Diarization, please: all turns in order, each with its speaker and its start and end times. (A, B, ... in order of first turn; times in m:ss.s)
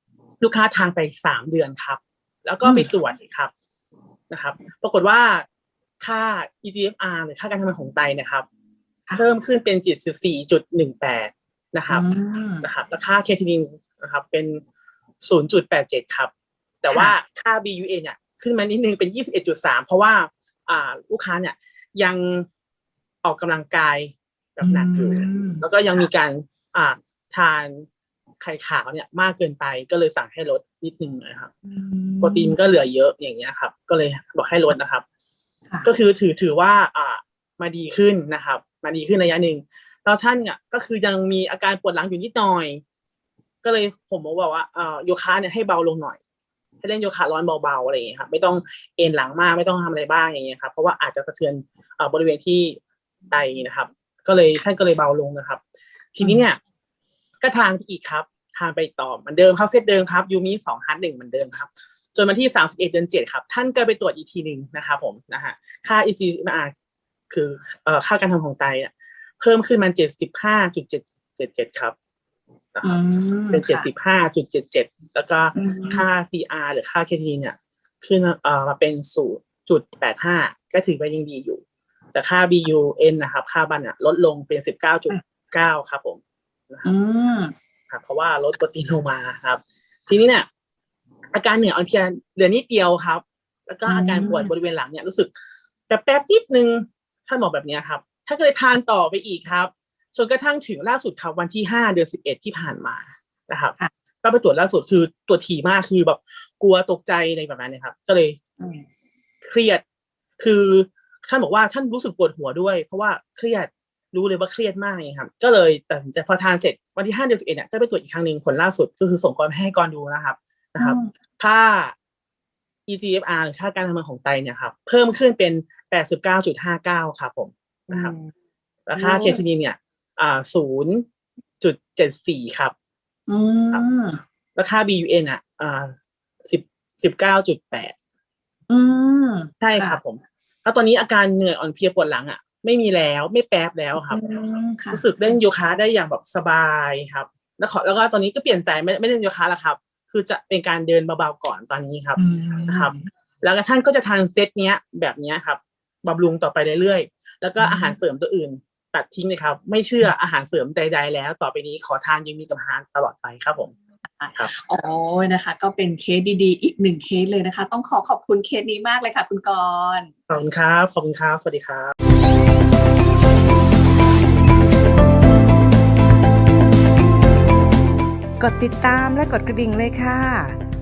0:00.4-0:03.5 A
0:02.6-0:02.9 B
0:04.3-0:05.4 A
0:06.0-0:08.5 A
0:09.1-0:12.0 A
0:11.9-0:12.6 B
0:12.6-0:14.6 A
0:15.2-0:16.3 A
0:16.8-0:22.5 A
0:16.9-0:17.1 B
0:23.2-0:27.8 A
0:24.6-0:26.1 B
0:28.4-0:31.5 A
0:31.6-0:32.6 B
0:32.2-0:35.0 A
0:35.8-0:42.8 A
0:43.6-0:46.2 A
0:46.8-0:52.8 A
0:53.3-0:55.6 A
0:56.1-0:56.6 A
0:57.4-1:06.7 A
1:07.3-1:11.9 A
1:12.7-1:13.0 A
1:12.8-1:13.9 B
1:13.5-1:21.6 A
1:15.5-1:16.0 B
1:22.1-1:26.9 A
1:26.8-1:27.5 B
1:27.9-1:30.5 A
1:31.3-1:35.3 A
1:33.9-1:34.5 B
1:35.9-1:48.4 A
1:49.4-1:49.8 A
1:50.4-2:01.9 A
2:00.8-2:01.1 B
2:02.9-2:08.1 A
2:07.9-2:08.3 B
2:08.9-2:11.0 A
2:08.9-2:09.4 B
2:11.6-2:12.7 A
2:13.3-2:14.2 B
2:14.6-2:17.9 A
2:18.7-2:20.0 B
2:19.6-2:24.2 A
2:24.0-2:25.0 B
2:24.9-2:43.7 A
2:32.2-2:33.1 B
2:37.6-2:38.0 B
2:44.2-2:50.1 B
2:50.3-2:51.9 A
2:58.4-3:00.6 C